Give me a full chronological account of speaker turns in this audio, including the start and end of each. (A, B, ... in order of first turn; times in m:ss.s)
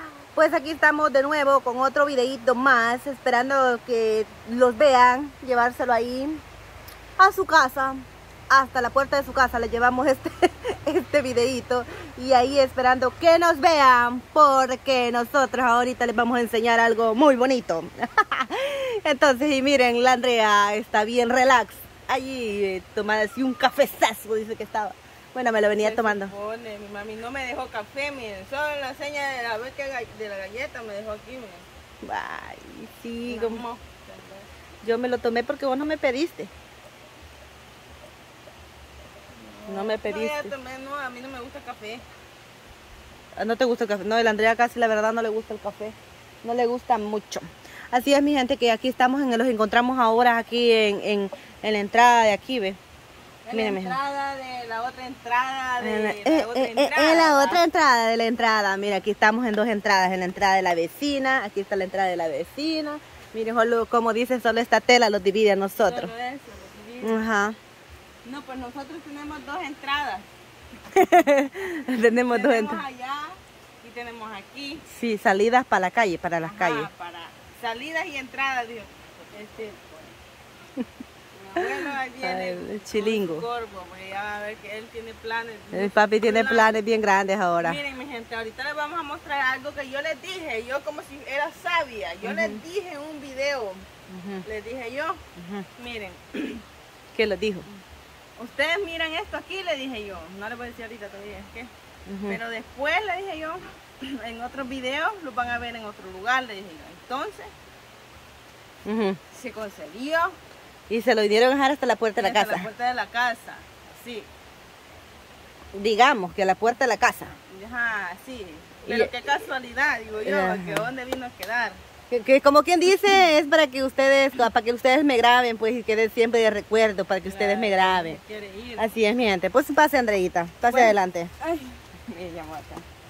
0:00.3-0:06.4 A
0:07.2-0:26.3 A
0:25.8-0:31.7 B
0:32.0-0:33.6 A
0:33.3-0:34.5 B
0:34.8-0:36.5 A
0:39.3-0:42.0 B
0:39.7-0:40.5 A
0:43.4-0:52.8 A
0:53.4-0:57.6 B
0:53.5-0:54.0 A
0:55.8-1:06.1 A
1:05.8-1:07.2 B
1:07.0-1:07.6 A
1:08.2-1:10.3 B
1:10.9-1:12.8 A
1:12.3-1:14.8 B
1:14.9-1:16.9 A
1:16.4-1:20.2 B
1:21.4-1:26.8 B
1:22.2-1:23.5 A
1:25.7-1:27.8 A
1:27.6-1:33.9 B
1:32.2-1:32.6 A
1:34.1-1:34.4 A
1:34.4-1:35.2 B
1:35.4-1:35.7 A
1:35.8-1:36.6 B
1:37.1-1:37.7 A
1:38.4-1:41.7 B
1:42.1-1:42.4 A
1:42.2-1:47.5 B
1:48.9-1:49.2 A
1:49.3-1:50.4 B
1:50.9-1:52.7 A
1:52.2-1:54.3 B
1:55.7-1:57.3 A
1:57.5-2:01.8 B
1:58.9-1:59.1 A
2:00.2-2:00.9 A
2:02.1-2:08.2 A
2:07.2-2:08.9 B
2:08.8-2:11.3 A
2:10.7-2:12.8 B